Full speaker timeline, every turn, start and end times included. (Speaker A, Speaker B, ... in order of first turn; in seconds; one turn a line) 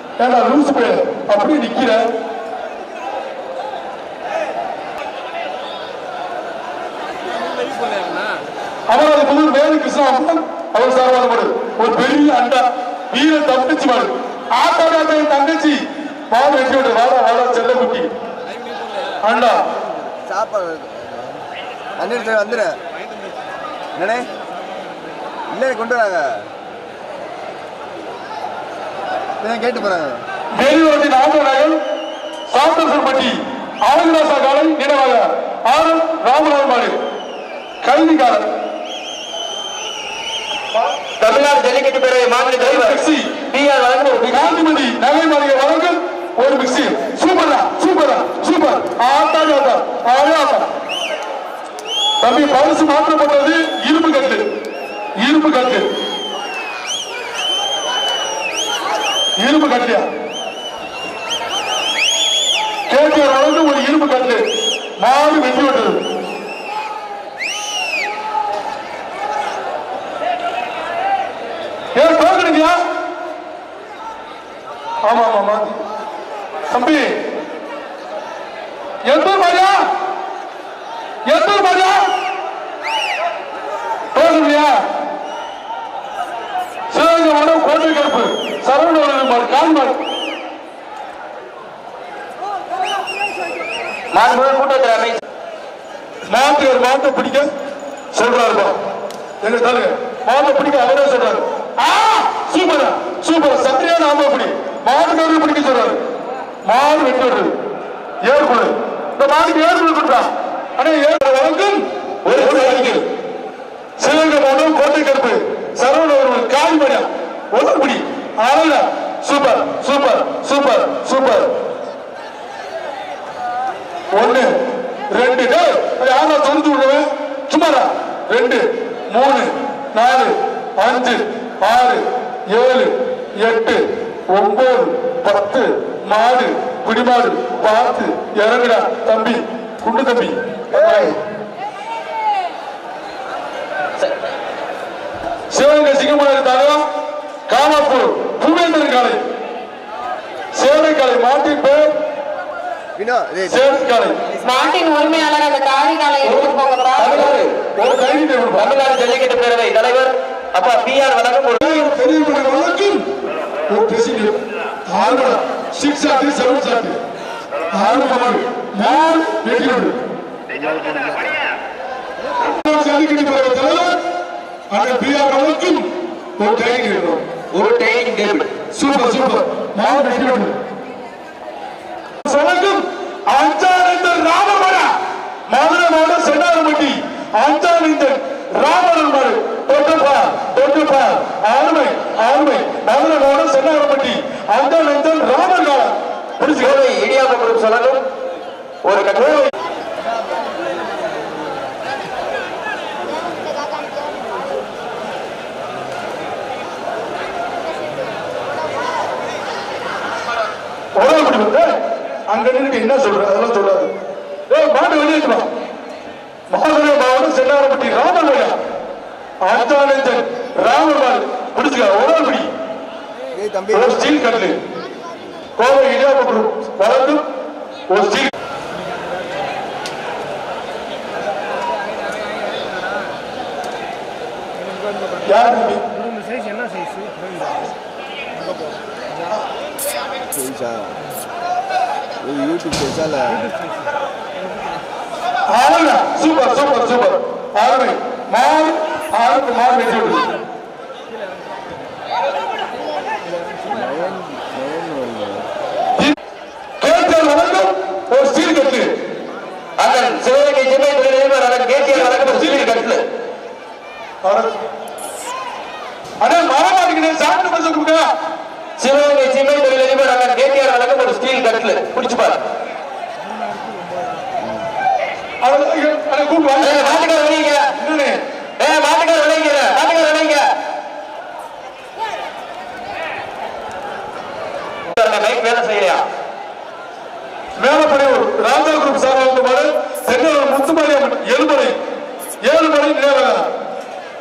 Speaker A: 0.2-2.1
Speaker A: 8.9-18.1
Speaker A: 19.2-19.7
Speaker B: 20.1-21.4
Speaker B: 21.9-22.8
Speaker B: 23.9-24.3
Speaker B: 25.5-26.5
Speaker B: 29.4-30.2
Speaker A: 30.5-31.8
Speaker A: 32.5-37.0
Speaker A: 37.8-38.5
Speaker C: 41.2-44.6
Speaker A: 42.6-43.3
Speaker A: 44.3-50.7
Speaker A: 52.2-54.5
Speaker A: 55.2-55.9
Speaker A: 59.4-60.1
Speaker A: 62.9-64.5
Speaker A: 65.0-66.0
Speaker A: 71.9-72.8
Speaker A: 75.0-75.8
Speaker A: 76.7-77.2
Speaker A: 79.0-79.9
Speaker A: 81.2-82.1
Speaker A: 84.1-84.8
Speaker A: 86.9-90.0
Speaker C: 94.1-95.2
Speaker A: 96.3-97.5
Speaker A: 98.1-98.8
Speaker A: 99.4-106.0
Speaker A: 106.6-107.5
Speaker A: 108.2-113.0
Speaker C: 112.2-113.0
Speaker A: 114.0-121.5
Speaker A: 124.1-124.5
Speaker A: 125.1-141.2
Speaker B: 140.7-141.2
Speaker A: 145.5-146.8
Speaker A: 147.5-149.2
Speaker A: 150.5-151.9
Speaker B: 152.9-153.6
Speaker A: 153.5-154.2
Speaker D: 154.4-157.3
Speaker C: 156.2-157.5
Speaker A: 157.8-158.7
Speaker C: 158.5-161.8
Speaker A: 161.6-163.1
Speaker A: 163.7-167.0
Speaker A: 167.7-170.0
Speaker B: 170.5-171.4
Speaker A: 172.5-174.0
Speaker A: 174.7-177.2
Speaker C: 177.5-178.5
Speaker A: 178.7-180.6
Speaker A: 182.2-184.9
Speaker A: 185.5-196.8
Speaker C: 196.6-198.0
Speaker C: 198.8-199.5
Speaker A: 210.9-211.8
Speaker A: 212.3-213.9
Speaker A: 214.5-215.5
Speaker A: 216.5-218.6
Speaker A: 219.4-222.5
Speaker B: 223.3-224.0
Speaker A: 223.7-224.6
Speaker A: 225.6-227.2
Speaker A: 227.9-228.3
Speaker A: 235.2-236.0
Speaker B: 240.3-241.0
Speaker B: 242.2-243.5
Speaker A: 245.5-250.3
Speaker B: 253.6-255.5
Speaker A: 256.8-258.9
Speaker C: 259.8-263.0
Speaker A: 261.8-262.8
Speaker A: 264.2-264.6
Speaker A: 266.2-268.1
Speaker C: 268.8-272.4
Speaker A: 275.4-277.1
Speaker C: 276.6-277.7
Speaker A: 277.7-278.2
Speaker C: 278.6-280.5
Speaker C: 284.9-286.0
Speaker A: 287.6-291.7
Speaker A: 292.4-293.5